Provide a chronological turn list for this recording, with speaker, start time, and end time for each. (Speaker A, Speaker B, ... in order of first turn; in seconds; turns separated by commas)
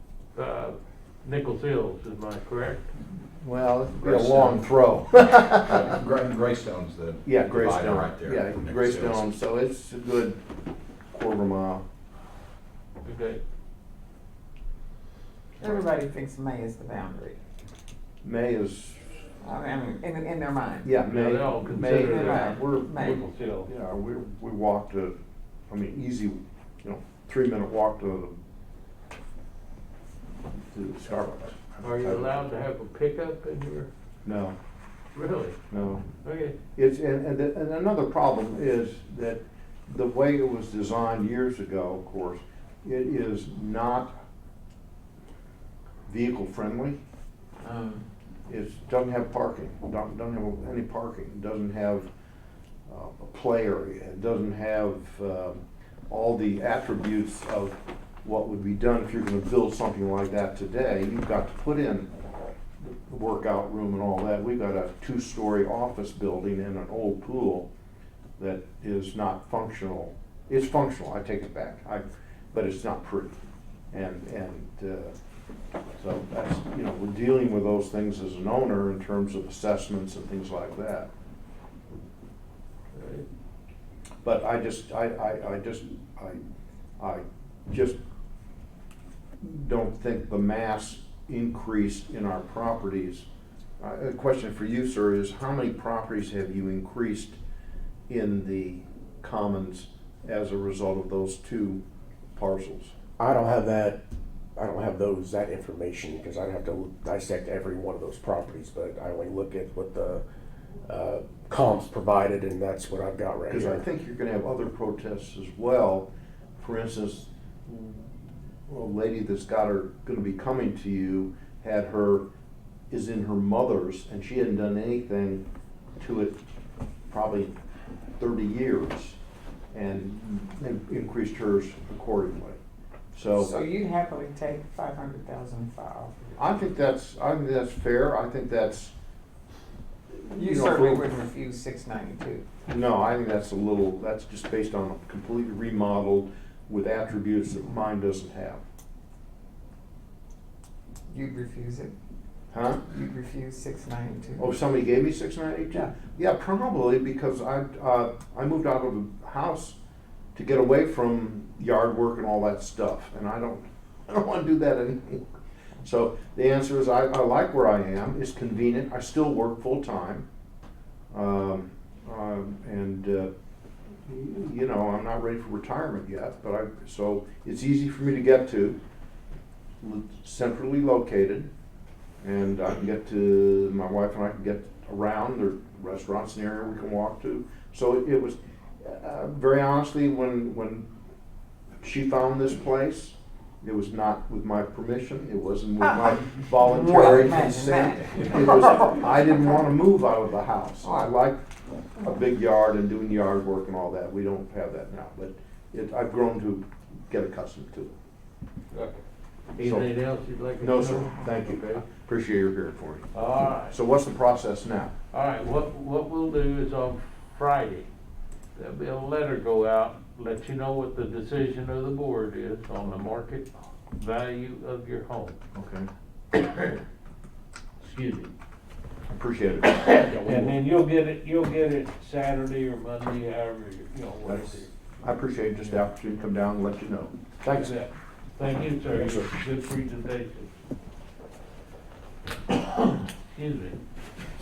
Speaker A: 0.3-2.9, Speaker B: 3.4-6.0, Speaker C: 4.1-4.5, Speaker C: 5.7-9.3, Speaker B: 7.2-10.4, Speaker B: 11.1-11.8, Speaker A: 13.0-13.4, Speaker D: 15.6-17.4, Speaker B: 18.2-19.0, Speaker D: 19.4-21.0, Speaker B: 20.8-25.1, Speaker A: 21.1-23.7, Speaker D: 21.8-23.2, Speaker B: 25.7-28.4, Speaker B: 30.5-32.4, Speaker A: 31.8-33.9, Speaker B: 34.2-34.6, Speaker A: 35.1-36.5, Speaker B: 35.7-36.0, Speaker B: 36.8-44.1, Speaker B: 46.1-47.0, Speaker D: 47.6-48.0, Speaker B: 48.5-52.1, Speaker B: 52.9-62.1, Speaker B: 62.8-67.7, Speaker B: 68.4-73.4, Speaker B: 73.9-75.1, Speaker B: 76.0-81.1, Speaker A: 82.9-83.3, Speaker B: 84.2-86.4, Speaker B: 87.0-88.0, Speaker B: 89.4-93.3, Speaker B: 93.8-97.4, Speaker B: 98.1-101.8, Speaker B: 102.3-102.9, Speaker E: 103.2-104.0, Speaker E: 104.6-110.2, Speaker E: 110.9-113.8, Speaker B: 113.5-118.0, Speaker B: 118.7-122.2, Speaker B: 122.9-125.5, Speaker B: 126.0-126.4, Speaker B: 127.1-127.5, Speaker B: 128.2-129.2, Speaker B: 129.7-132.6, Speaker B: 133.1-133.6, Speaker D: 133.4-136.4, Speaker B: 136.4-138.9, Speaker B: 140.1-141.2, Speaker D: 140.3-142.5, Speaker B: 142.7-148.6, Speaker D: 151.1-151.9, Speaker B: 152.5-152.8, Speaker D: 152.9-154.5, Speaker B: 154.4-159.8, Speaker B: 160.3-165.2, Speaker B: 165.8-170.3, Speaker B: 171.1-173.3, Speaker B: 174.1-178.8, Speaker B: 179.8-181.5, Speaker B: 182.2-190.9, Speaker B: 191.8-201.4, Speaker D: 196.7-198.9, Speaker D: 200.8-201.1, Speaker B: 202.0-207.9, Speaker A: 208.7-209.0, Speaker A: 209.6-211.8, Speaker B: 209.6-209.9, Speaker B: 210.6-214.9, Speaker A: 213.1-213.8, Speaker A: 215.1-217.9, Speaker A: 218.6-225.4, Speaker B: 225.6-225.9, Speaker A: 226.4-226.8, Speaker A: 227.8-228.3, Speaker B: 229.1-230.6, Speaker A: 229.9-234.7, Speaker B: 234.2-237.8, Speaker A: 237.5-240.5, Speaker B: 238.9-239.3, Speaker A: 242.5-243.8